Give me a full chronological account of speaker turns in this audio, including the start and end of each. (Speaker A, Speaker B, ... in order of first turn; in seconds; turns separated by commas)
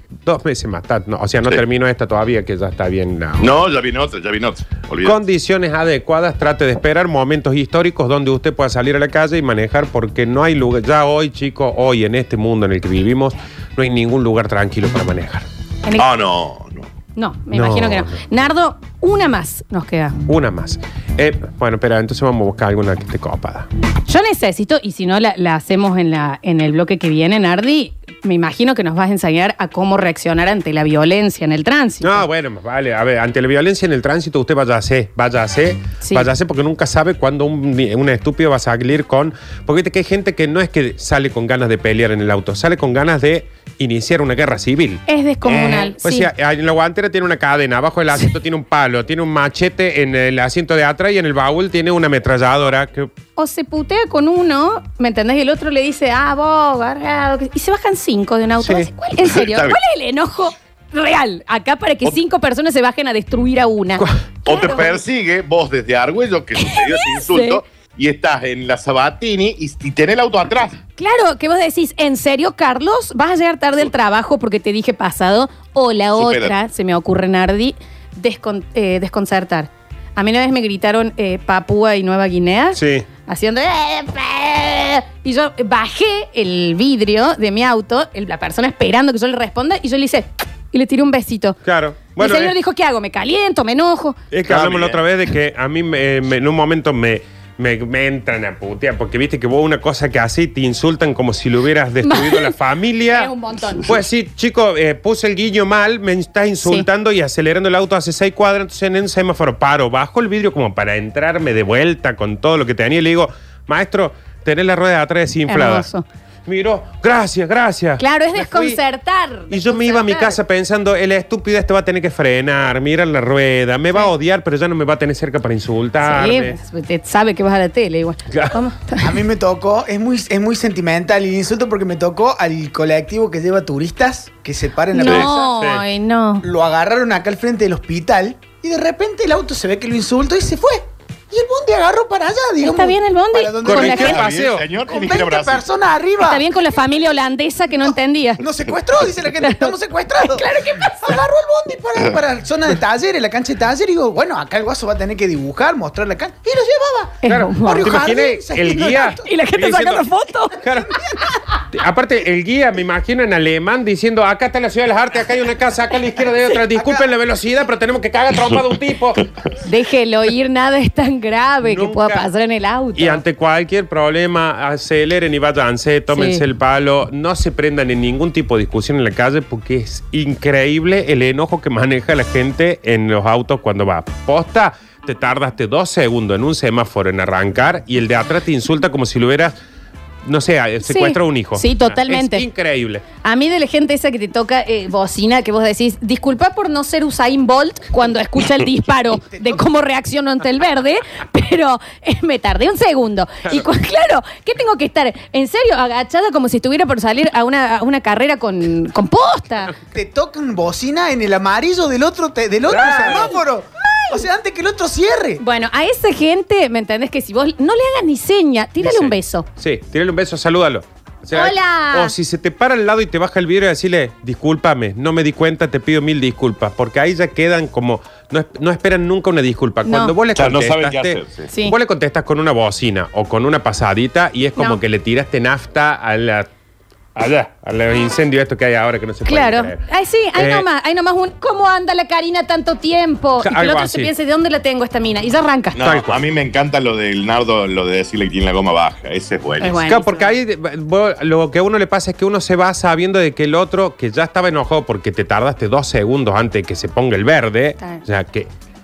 Speaker A: 0.2-3.5, Speaker B: 3.4-5.2, Speaker A: 5.0-15.4, Speaker B: 16.0-16.9, Speaker C: 17.1-20.2, Speaker A: 17.5-18.2, Speaker A: 20.3-23.7, Speaker C: 24.1-32.2, Speaker A: 32.0-53.1, Speaker C: 36.0-36.3, Speaker C: 45.1-46.3, Speaker C: 53.4-64.9, Speaker A: 58.6-58.9, Speaker B: 59.2-59.8, Speaker B: 64.4-70.8, Speaker C: 66.6-67.6, Speaker C: 71.0-91.6, Speaker B: 76.2-76.5, Speaker A: 82.8-83.0, Speaker A: 91.6-92.5, Speaker C: 92.2-94.2, Speaker A: 94.3-103.3, Speaker B: 94.5-95.0, Speaker C: 102.0-102.5, Speaker C: 103.1-103.9, Speaker A: 103.8-115.9, Speaker C: 115.5-116.0, Speaker A: 116.5-118.8, Speaker C: 118.0-120.4, Speaker A: 119.5-126.6, Speaker C: 126.0-129.1, Speaker A: 128.3-128.6, Speaker D: 129.0-135.6, Speaker C: 134.9-136.4, Speaker D: 136.4-144.2, Speaker C: 142.6-144.1, Speaker A: 143.6-144.6, Speaker B: 143.8-145.6, Speaker D: 144.8-146.4, Speaker C: 146.2-148.4, Speaker D: 148.4-159.2, Speaker C: 149.4-151.2, Speaker C: 157.2-158.0, Speaker A: 157.3-160.1, Speaker C: 159.1-160.6, Speaker A: 160.6-161.0, Speaker A: 161.7-169.3, Speaker D: 166.8-167.0, Speaker C: 169.6-173.2, Speaker A: 171.6-172.2, Speaker A: 172.9-189.6, Speaker C: 176.1-176.4, Speaker A: 190.2-193.0, Speaker C: 190.8-192.4, Speaker C: 193.2-209.7, Speaker D: 199.1-199.6, Speaker D: 209.9-215.4, Speaker A: 212.7-213.3, Speaker C: 213.1-214.2, Speaker C: 215.4-219.4, Speaker A: 218.8-236.5, Speaker C: 221.3-222.1, Speaker C: 229.8-230.1, Speaker B: 230.3-231.5, Speaker C: 231.5-231.7, Speaker A: 237.2-239.8, Speaker C: 239.2-245.8, Speaker A: 240.3-240.7, Speaker A: 243.4-244.1, Speaker B: 245.7-249.8, Speaker A: 245.8-246.2, Speaker C: 249.6-250.3, Speaker A: 249.8-258.5